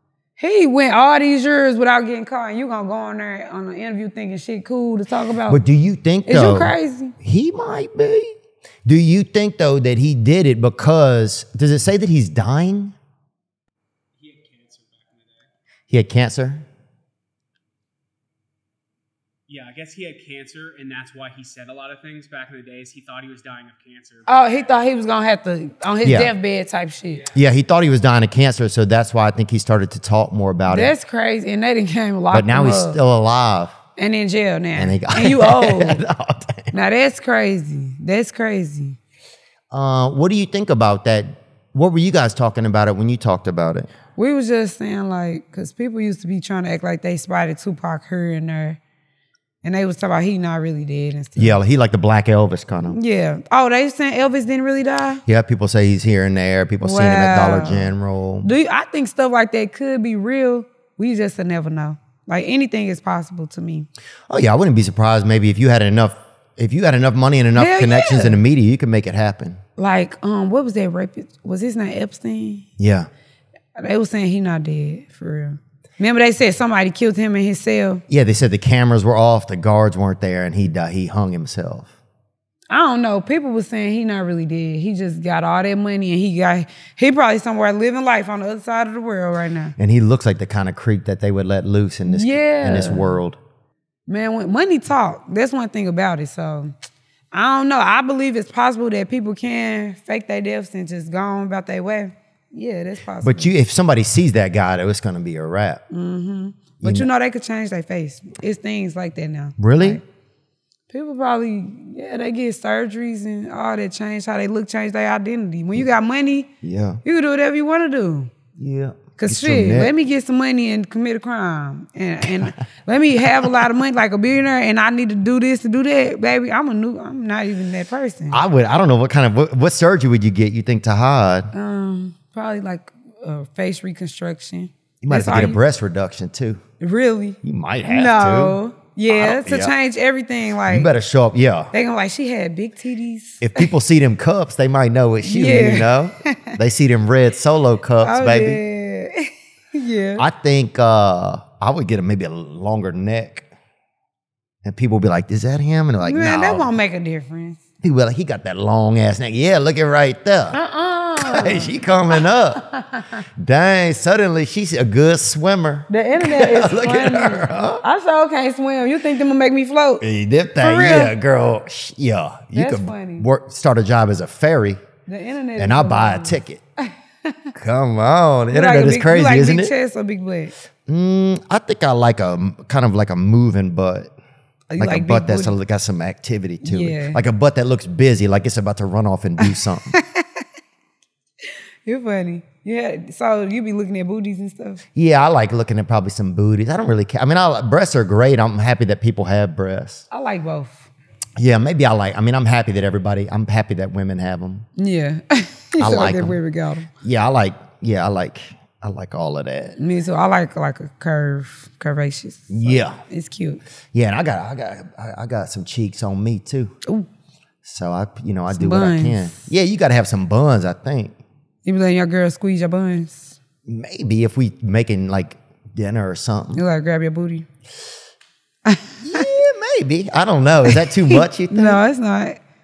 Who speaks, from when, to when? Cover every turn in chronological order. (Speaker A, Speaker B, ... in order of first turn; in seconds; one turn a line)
Speaker A: 0.4-5.6
Speaker B: 5.5-12.9
Speaker A: 6.2-7.1
Speaker C: 14.2-15.5
Speaker B: 15.9-16.7
Speaker C: 19.5-24.3
Speaker A: 24.3-27.3
Speaker B: 26.0-26.3
Speaker B: 27.3-30.9
Speaker A: 30.7-33.0
Speaker B: 32.3-33.8
Speaker A: 34.0-36.0
Speaker B: 34.8-36.7
Speaker A: 36.7-39.0
Speaker B: 39.7-43.9
Speaker A: 44.1-48.8
Speaker A: 49.6-51.6
Speaker B: 51.4-53.0
Speaker A: 52.9-55.2
Speaker B: 55.2-58.5
Speaker A: 56.8-63.9
Speaker B: 64.3-69.6
Speaker A: 67.5-68.4
Speaker A: 69.8-72.7
Speaker B: 72.8-73.1
Speaker A: 73.8-78.0
Speaker B: 78.1-81.9
Speaker A: 82.7-89.8
Speaker B: 89.8-93.4
Speaker A: 92.1-93.2
Speaker A: 94.1-96.7
Speaker A: 97.3-103.5
Speaker B: 103.2-105.8
Speaker A: 105.9-110.0
Speaker B: 106.8-107.1
Speaker B: 109.6-110.0
Speaker A: 110.9-116.5
Speaker B: 116.6-117.0
Speaker A: 117.0-118.3
Speaker B: 118.6-119.9
Speaker A: 119.2-128.4
Speaker B: 128.3-131.5
Speaker A: 131.5-135.6
Speaker B: 135.0-136.6
Speaker A: 136.8-140.9
Speaker B: 137.4-139.7
Speaker B: 140.7-141.7
Speaker A: 141.7-143.7
Speaker B: 143.4-148.6
Speaker A: 145.2-146.6
Speaker A: 148.0-150.2
Speaker B: 150.2-153.5
Speaker B: 154.6-156.7
Speaker A: 156.1-157.6
Speaker B: 157.8-160.6
Speaker A: 160.5-163.2
Speaker B: 161.2-162.6
Speaker B: 163.4-167.8
Speaker A: 165.9-170.0
Speaker B: 170.0-174.8
Speaker A: 170.6-171.1
Speaker A: 172.5-173.3
Speaker A: 175.1-177.5
Speaker B: 175.6-176.6
Speaker B: 177.5-179.7
Speaker A: 178.5-180.5
Speaker B: 180.8-184.1
Speaker A: 184.7-185.6
Speaker B: 184.8-189.9
Speaker A: 186.6-187.2
Speaker A: 189.4-190.4
Speaker A: 191.8-194.8
Speaker B: 194.9-200.0
Speaker A: 200.1-200.9
Speaker B: 201.4-204.7
Speaker A: 204.8-206.9
Speaker B: 205.8-206.4
Speaker B: 207.0-209.8
Speaker A: 209.8-213.6
Speaker B: 212.5-213.0
Speaker B: 213.9-216.8
Speaker B: 217.6-221.2
Speaker A: 218.5-219.5
Speaker A: 221.6-223.4
Speaker B: 223.7-226.6
Speaker A: 226.5-227.5
Speaker A: 228.7-229.2
Speaker B: 229.0-231.8
Speaker A: 230.7-232.4